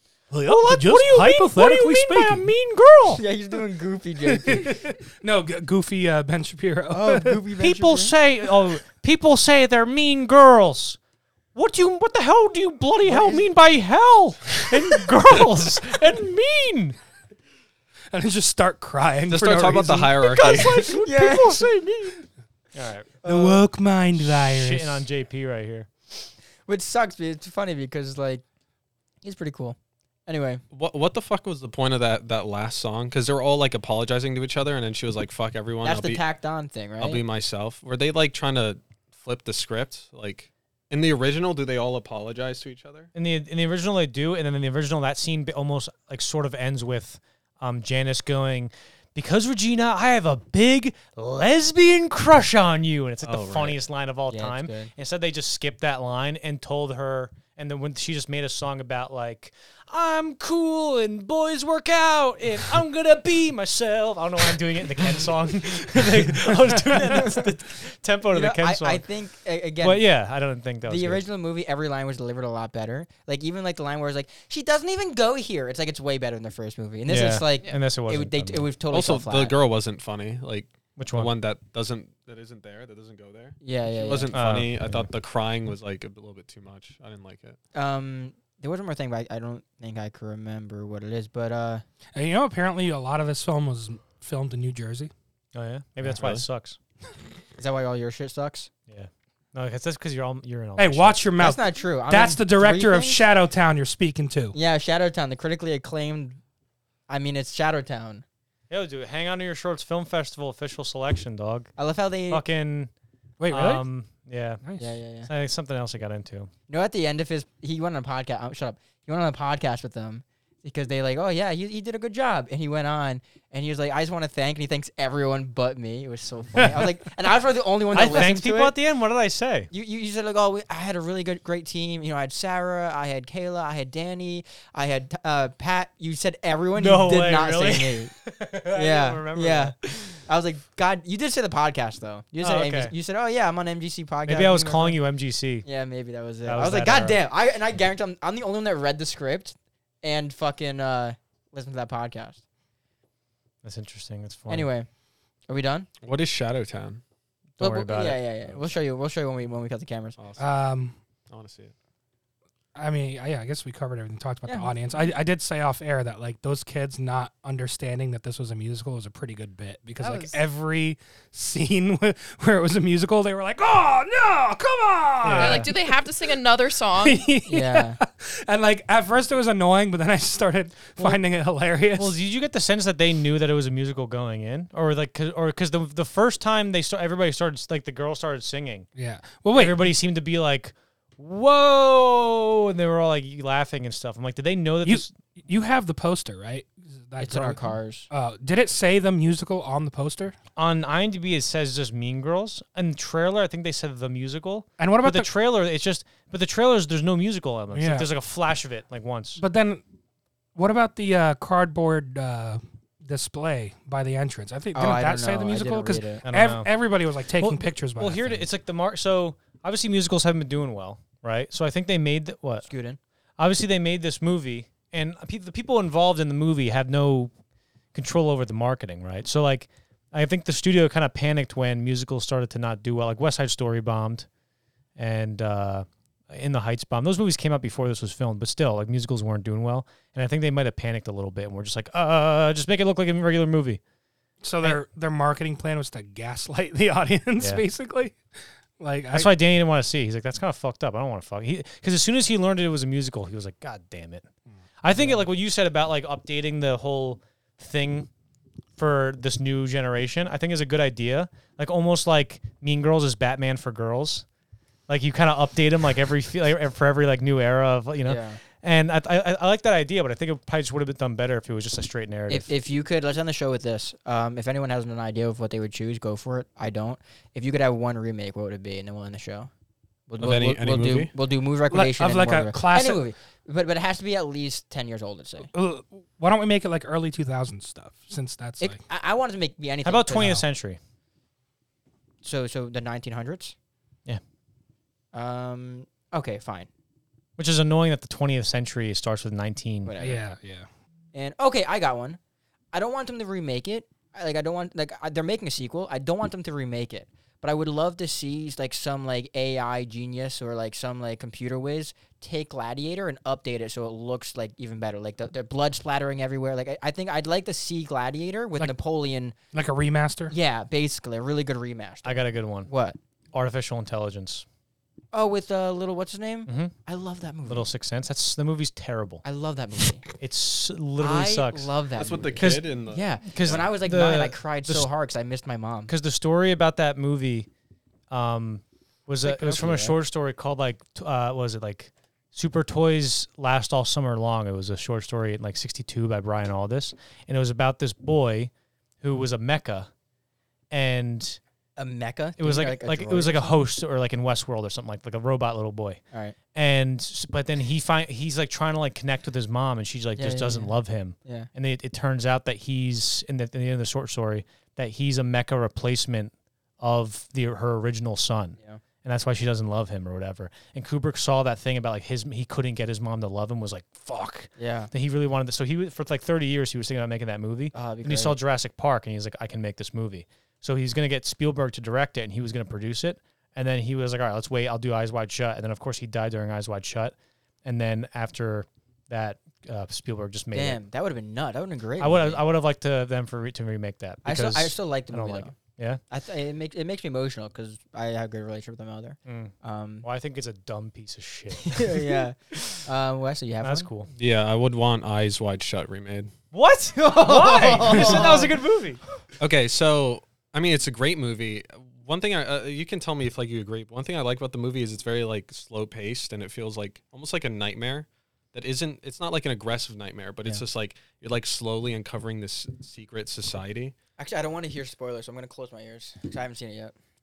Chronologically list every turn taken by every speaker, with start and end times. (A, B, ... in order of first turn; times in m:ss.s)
0:00.3-0:02.5 A
0:00.4-0:03.2 B
0:03.1-0:04.8 C
0:04.3-0:07.4 A
0:06.9-0:08.1 C
0:07.6-0:11.0 B
0:11.5-0:17.0 B
0:13.0-0:13.4 C
0:18.1-0:20.3 A
0:19.3-0:20.9 D
0:20.2-0:23.2 B
0:20.5-0:21.6 C
0:23.2-0:23.6 C
0:23.2-0:25.1 A
0:24.1-0:25.9 B
0:26.6-0:28.4 C
0:29.2-0:30.6 C
0:30.7-0:36.2 D
0:35.8-0:37.2 C
0:37.0-0:43.1 D
0:43.1-1:09.0 B
0:53.2-0:53.8 D
0:54.3-0:54.9 C
1:06.9-1:07.5 C
1:08.3-1:10.0 C
1:09.8-1:11.2 B
1:10.8-1:19.5 C
1:17.1-1:18.6 B
1:18.9-1:27.6 D
1:21.0-1:21.3 B
1:23.6-1:24.3 C
1:24.3-1:25.1 B
1:27.7-1:31.8 C
1:32.2-1:35.1 A
1:35.5-1:36.8 B
1:36.0-1:36.4 D
1:37.6-1:38.7 C
1:38.9-1:41.2 B
1:40.8-1:44.6 A
1:41.4-1:43.3 C
1:44.5-1:46.4 C
1:47.1-1:48.2 C
1:48.7-1:51.7 B
1:51.8-1:52.4 C
1:52.3-1:52.9 B
1:53.4-1:53.8 A
1:53.5-1:54.6 B
1:54.6-1:54.9 A
1:54.8-1:55.3 C
1:55.2-1:56.5 B
1:56.7-2:08.7 C
2:07.9-2:09.7 B
2:09.7-2:18.1 C
2:16.8-2:20.1 B
2:18.7-2:25.0 C
2:22.4-2:22.9 B
2:24.2-2:25.6 B
2:25.6-2:32.4 C
2:26.4-2:27.2 B
2:33.6-2:34.7 B
2:34.5-2:34.9 C
2:35.5-2:35.9 C
2:36.0-2:37.0 D
2:37.6-2:38.7 B
2:37.6-2:40.2 C
2:40.2-2:40.6 D
2:40.4-2:40.9 A
2:41.3-2:41.7 D
2:42.7-2:56.0 A
2:50.0-2:50.4 E
2:55.2-2:55.7 B
2:55.4-2:57.3 E
2:57.0-3:02.1 A
2:57.5-2:58.0 C
3:02.0-3:08.9 B
3:09.0-3:09.9 A
3:09.5-3:15.1 B
3:14.8-3:20.3 A
3:17.2-3:18.1 C
3:20.6-3:29.4 B
3:24.8-3:25.3 A
3:27.7-3:28.1 A
3:29.4-3:29.8 A
3:30.5-3:38.4 A
3:34.7-3:36.2 C
3:36.2-3:36.7 B
3:37.4-3:42.6 B
3:42.6-3:43.0 C
3:43.4-3:47.3 B
3:47.9-3:54.3 B
3:55.0-4:03.8 B
4:04.4-4:08.2 A
4:07.4-4:07.6 B
4:08.8-4:09.3 A
4:09.1-4:14.3 B
4:14.8-4:18.1 B
4:14.9-4:15.2 A
4:18.8-4:24.2 B
4:24.9-4:32.5 B
4:28.0-4:28.4 C
4:32.3-4:39.5 C
4:40.1-4:45.5 C
4:40.2-4:41.1 D
4:41.7-4:43.0 A
4:45.5-4:48.8 A
4:48.6-4:50.4 C
4:49.8-4:50.8 B
4:52.2-4:53.5 C
4:55.1-4:56.7 C
4:57.4-4:59.9 B
4:59.8-5:00.2 C
5:00.0-5:00.7 A
5:01.1-5:02.2 C
5:02.7-5:19.4 C
5:19.5-5:20.3 A
5:20.3-5:23.0 C
5:22.0-5:22.7 B
5:23.3-5:24.4 B
5:25.1-5:27.7 C
5:26.4-5:26.7 B
5:27.4-5:29.2 B
5:29.2-5:30.0 C
5:30.2-5:31.7 B
5:31.0-5:35.9 C
5:31.9-5:33.7 D
5:32.4-5:32.7 B
5:33.2-5:34.9 B
5:35.9-5:37.5 B
5:38.1-5:48.5 B
5:39.2-5:40.0 C
5:49.0-5:49.9 B
5:50.7-5:51.4 B
5:51.8-5:53.6 C
5:52.4-5:56.0 B
5:56.1-5:56.4 C
5:56.5-6:27.1 B
6:00.2-6:01.5 C
6:14.6-6:14.9 C
6:17.7-6:18.4 C
6:27.6-6:30.8 B
6:30.5-6:32.4 C
6:32.0-6:36.0 B
6:34.2-6:35.5 C
6:36.1-6:40.0 C
6:39.2-6:42.8 B
6:41.5-6:43.9 C
6:43.6-6:44.1 B
6:44.1-6:46.3 D
6:46.5-6:49.0 B
6:47.0-6:48.6 C
6:49.4-7:03.9 D
7:04.2-7:06.9 C